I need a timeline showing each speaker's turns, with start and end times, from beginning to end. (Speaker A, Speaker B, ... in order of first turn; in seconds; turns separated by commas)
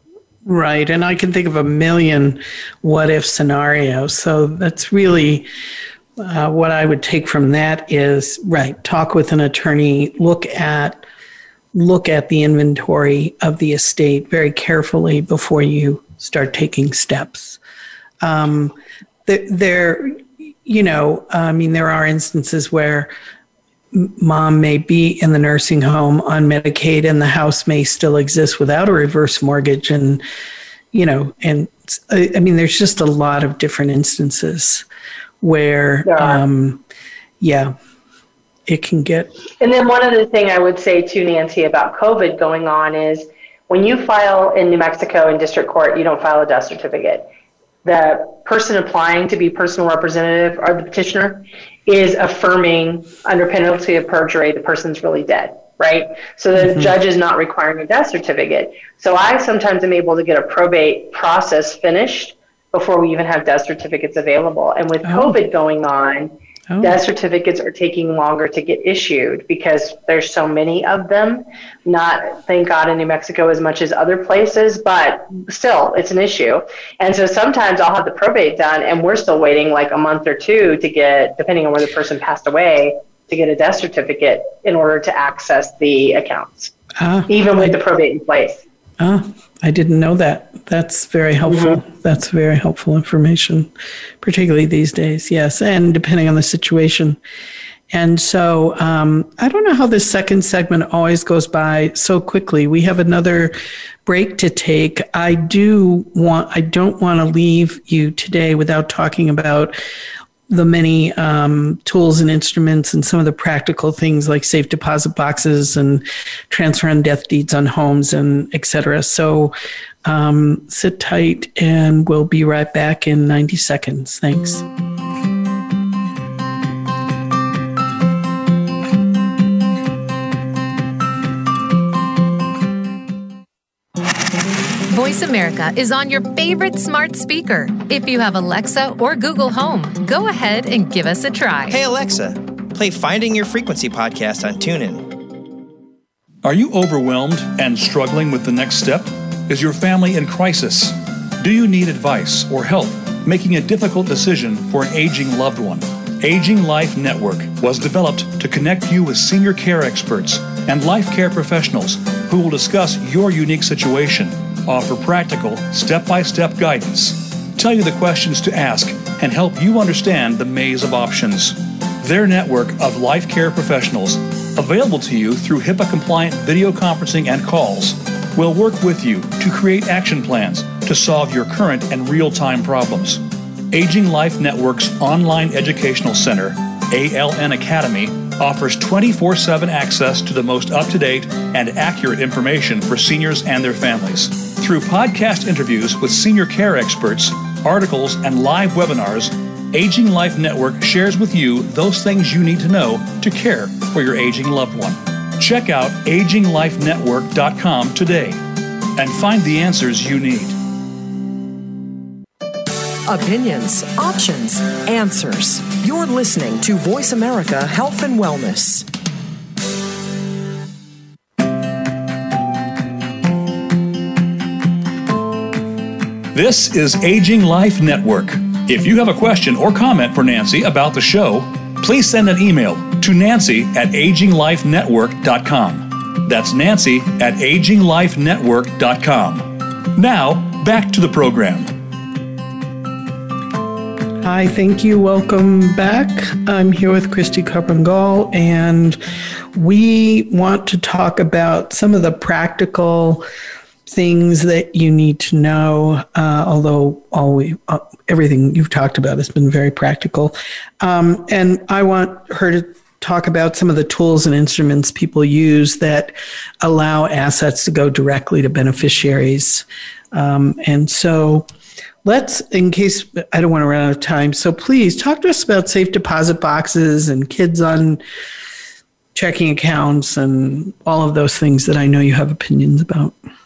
Speaker A: 0.5-5.5, Speaker A: 6.2-11.0, Speaker A: 11.7-17.6, Speaker A: 18.2-18.8, Speaker A: 19.3-23.1, Speaker A: 23.9-30.2, Speaker A: 30.9-34.9, Speaker A: 35.4-36.8, Speaker B: 36.0-36.4, Speaker A: 37.4-37.7, Speaker A: 38.7-39.3, Speaker B: 39.6-47.3, Speaker B: 47.8-86.7, Speaker A: 56.6-56.9, Speaker A: 65.0-65.4, Speaker A: 66.7-67.0, Speaker A: 87.0-87.8, Speaker B: 87.3-88.6, Speaker A: 89.0-97.2, Speaker B: 91.5-91.8, Speaker A: 97.9-109.8, Speaker A: 110.5-124.6, Speaker C: 134.9-141.8, Speaker D: 141.7-145.1, Speaker E: 146.4-208.4, Speaker E: 208.9-210.6, Speaker F: 213.1-218.9, Speaker E: 226.3-241.7, Speaker A: 244.2-249.0, Speaker A: 249.6-253.2, Speaker A: 253.9-271.4, Speaker A: 272.0-278.0, Speaker A: 279.1-283.2